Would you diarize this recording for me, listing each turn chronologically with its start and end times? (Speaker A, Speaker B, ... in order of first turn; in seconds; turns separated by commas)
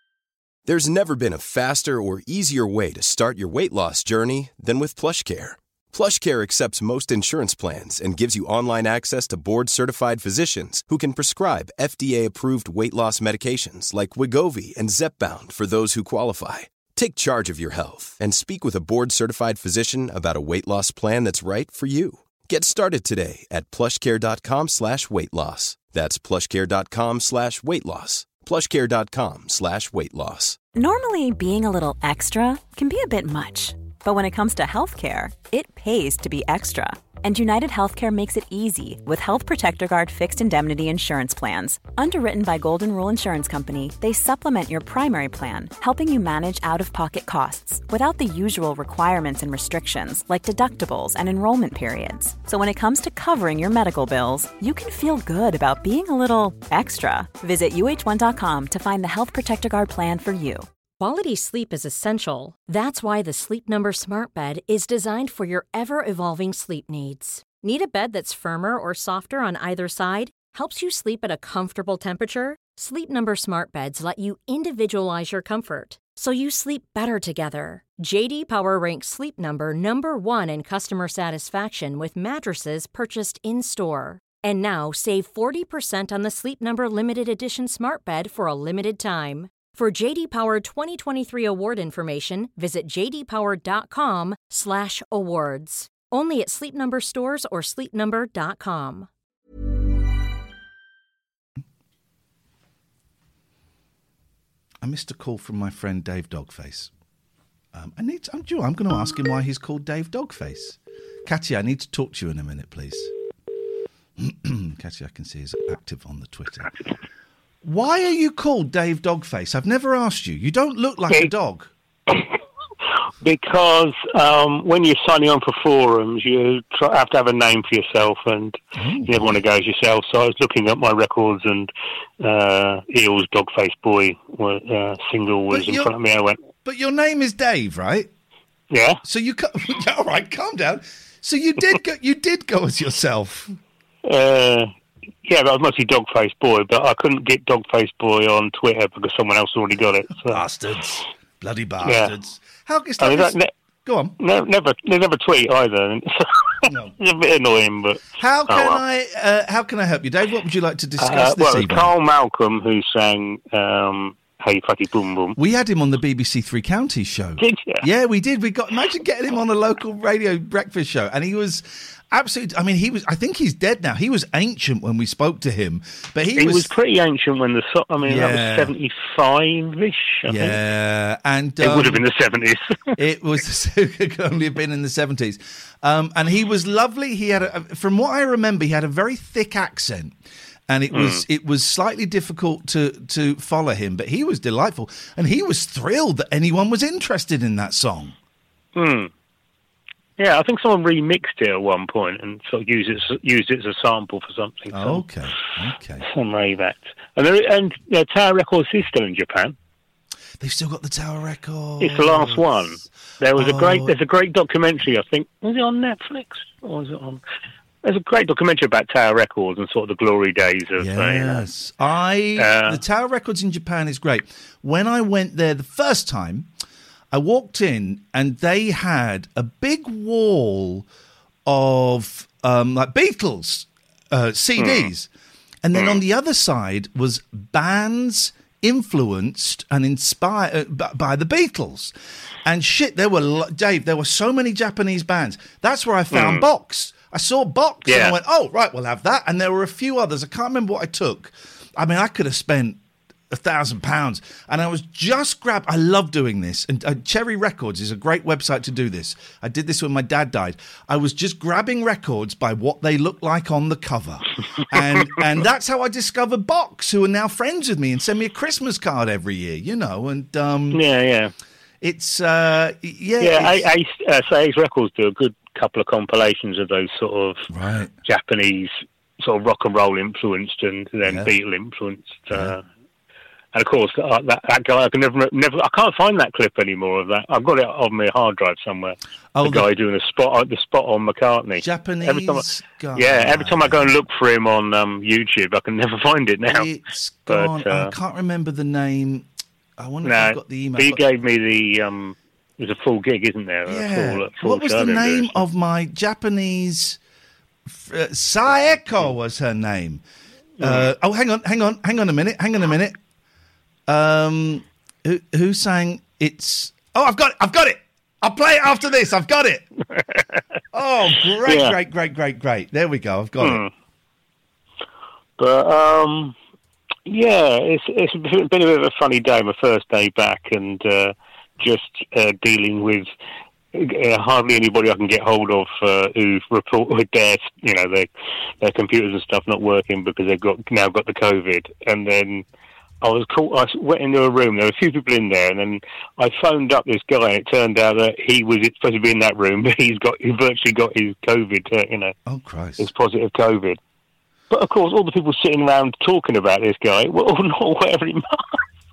Speaker A: 0.7-30.6, Speaker B: 30.8-60.7, Speaker C: 61.0-99.1, Speaker D: 104.8-106.9, Speaker D: 107.7-113.1, Speaker D: 114.2-116.7, Speaker D: 117.6-121.7, Speaker E: 123.2-131.7, Speaker D: 128.8-129.4, Speaker E: 132.2-136.4, Speaker D: 135.5-135.9, Speaker D: 136.6-138.1, Speaker E: 138.7-139.0, Speaker D: 139.0-143.6, Speaker E: 144.0-144.7, Speaker E: 145.2-150.4, Speaker D: 150.2-154.2, Speaker E: 151.8-152.1, Speaker E: 153.0-153.5, Speaker E: 154.2-158.8, Speaker D: 156.6-156.9, Speaker D: 158.2-161.9, Speaker E: 161.0-165.4, Speaker D: 165.4-176.7, Speaker E: 167.4-167.9, Speaker E: 176.3-180.6, Speaker D: 178.0-178.7, Speaker D: 180.3-182.1, Speaker E: 181.6-183.0, Speaker D: 183.0-190.2, Speaker D: 190.7-198.2, Speaker E: 190.9-191.2, Speaker E: 198.8-199.1, Speaker E: 200.2-205.1, Speaker D: 204.7-206.1, Speaker E: 206.1-209.6, Speaker D: 210.4-212.6, Speaker E: 211.8-217.2, Speaker D: 213.4-213.9, Speaker E: 217.8-221.5, Speaker D: 220.8-226.5, Speaker E: 222.4-222.8, Speaker D: 227.1-230.9, Speaker D: 231.5-235.1, Speaker E: 234.6-234.9, Speaker D: 235.6-270.8, Speaker E: 246.1-246.4, Speaker E: 247.8-248.2, Speaker E: 270.7-271.3, Speaker D: 271.8-273.7, Speaker E: 273.2-277.5, Speaker D: 277.5-277.9, Speaker E: 278.0-282.6, Speaker D: 281.0-281.3, Speaker E: 283.5-296.7, Speaker D: 289.4-289.7, Speaker D: 291.6-294.0, Speaker D: 296.5-299.3, Speaker E: 297.3-297.9, Speaker D: 299.8-301.0, Speaker E: 300.0-305.5, Speaker D: 303.7-307.0, Speaker D: 307.7-310.0, Speaker E: 308.6-309.1, Speaker E: 310.6-310.9, Speaker D: 310.6-313.0, Speaker D: 313.9-319.6, Speaker D: 320.7-323.6, Speaker E: 321.4-321.8, Speaker E: 323.4-323.7, Speaker E: 325.4-326.4, Speaker E: 327.1-333.1, Speaker E: 333.7-338.1, Speaker E: 338.6-342.4, Speaker E: 343.0-352.1, Speaker D: 352.3-352.9, Speaker E: 352.8-353.8, Speaker E: 354.5-358.6